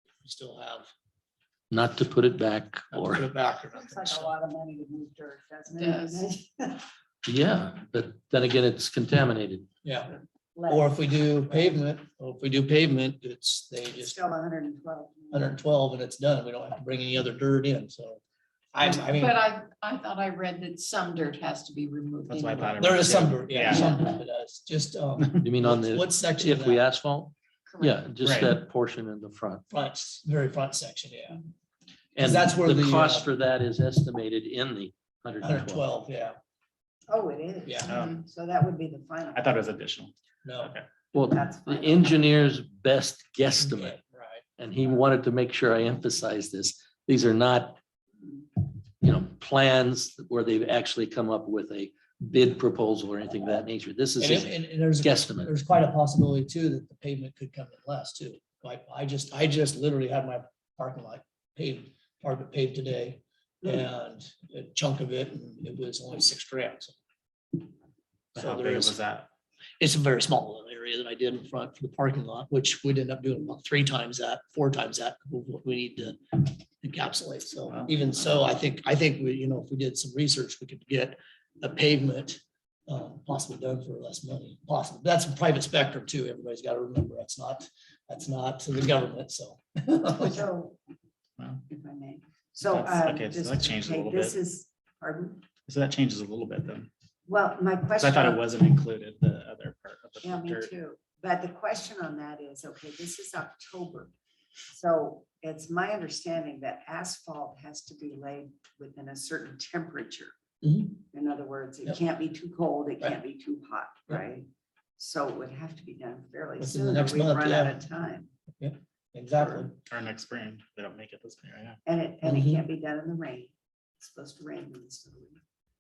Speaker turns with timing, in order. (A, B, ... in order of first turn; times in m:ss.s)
0:00.2-0:00.9 A
0:01.7-0:03.2 B
0:02.9-0:04.3 A
0:03.8-0:06.8 C
0:05.8-0:06.3 D
0:07.2-0:09.6 B
0:09.8-0:10.1 A
0:10.5-0:11.7 C
0:10.7-0:14.2 A
0:13.9-0:15.5 C
0:15.3-0:18.2 A
0:18.7-0:19.4 A
0:18.8-0:22.9 D
0:22.3-0:24.0 E
0:22.8-0:26.8 A
0:25.4-0:29.6 B
0:27.7-0:28.0 D
0:28.2-0:28.6 E
0:29.7-0:31.4 A
0:32.2-0:33.3 A
0:32.2-0:35.8 B
0:35.4-0:36.4 A
0:37.1-0:39.5 C
0:37.6-0:37.9 A
0:37.9-0:38.2 E
0:39.3-0:40.9 E
0:40.4-0:40.7 A
0:41.1-0:44.0 B
0:41.2-0:42.5 C
0:43.6-0:44.4 A
0:44.6-0:47.8 B
0:49.0-0:55.5 B
0:54.2-1:07.0 A
1:08.4-1:09.0 A
1:08.4-1:09.3 E
1:09.8-1:30.4 A
1:30.1-1:30.8 C
1:31.7-1:35.4 C
1:32.6-1:34.4 E
1:35.7-1:36.9 E
1:37.3-1:38.4 C
1:38.0-1:40.7 E
1:40.2-1:44.1 C
1:44.7-1:50.3 C
1:50.6-1:51.0 A
1:51.1-1:58.3 C
1:56.6-1:57.8 A
1:58.6-1:59.8 A
1:59.9-2:01.8 E
2:01.8-2:05.4 C
2:02.2-2:02.6 A